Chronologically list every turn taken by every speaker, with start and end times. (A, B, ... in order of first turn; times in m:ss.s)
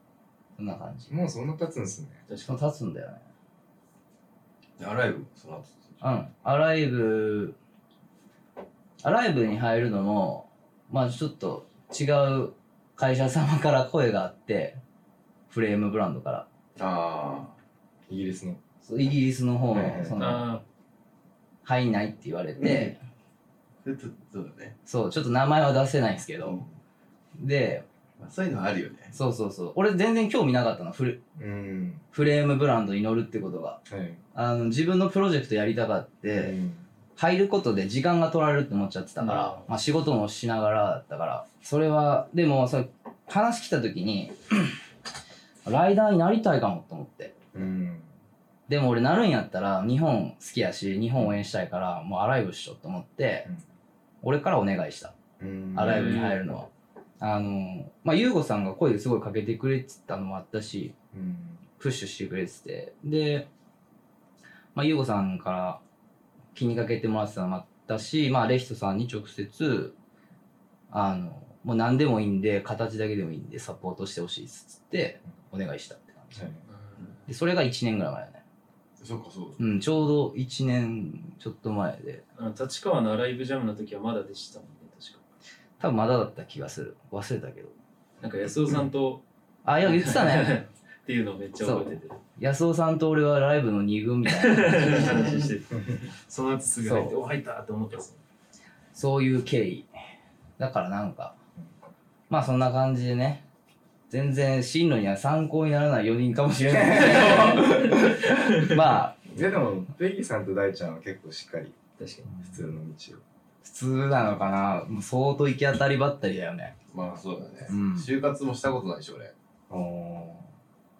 0:00.6-0:01.1 A
0:01.1-0:02.2 B
0:02.3-0:02.6 C
0:02.4-0:03.2 A
0:04.8-0:06.0 D
0:06.0-0:07.6 A
0:09.0-0:14.8 A
0:15.5-0:16.4 A
0:16.8-0:17.6 D
0:18.1-0:18.6 B
0:18.8-0:20.5 A
0:19.7-0:20.2 B
0:20.2-0:20.6 C
0:21.6-0:23.0 A
0:22.6-0:22.9 D
0:23.8-0:24.7 D
0:24.8-0:26.6 A
0:26.4-0:26.7 D
0:27.4-0:27.8 A
0:28.2-0:29.1 D
0:29.1-0:31.2 A
0:31.4-0:32.0 B
0:32.1-0:33.8 A
0:33.9-0:34.2 B
0:34.3-0:36.6 A
0:36.3-0:36.9 B
0:37.2-0:44.8 A
0:39.3-0:39.6 C
0:45.6-0:47.5 A
0:47.5-0:48.1 B
0:48.7-0:53.5 A
0:54.2-0:55.1 A
0:55.4-0:56.2 B
0:55.7-1:00.9 A
0:55.8-0:56.4 C
1:01.1-1:01.6 B
1:01.8-1:03.5 A
1:04.7-1:05.8 A
1:06.5-1:09.9 A
1:10.9-1:16.4 A
1:16.3-1:16.6 B
1:16.7-1:17.2 C
1:17.3-1:18.4 A
1:19.0-1:19.6 D
1:19.6-1:22.2 A
1:22.4-1:25.2 C
1:25.8-1:27.7 A
1:28.2-1:29.2 C
1:29.6-1:30.6 A
1:29.8-1:32.2 C
1:31.6-1:35.3 A
1:34.2-1:38.2 C
1:35.0-1:35.5 D
1:35.7-1:36.0 B
1:36.8-1:37.1 A
1:38.9-1:39.9 A
1:40.6-1:41.4 A
1:42.3-1:43.4 A
1:44.1-1:49.2 A
1:46.7-1:48.3 B
1:47.0-1:48.6 C
1:49.2-1:51.8 B
1:52.0-1:52.3 C
1:52.4-1:53.2 B
1:53.6-1:56.7 A
1:56.9-1:59.3 D
1:57.7-1:58.1 A
1:59.7-2:00.5 B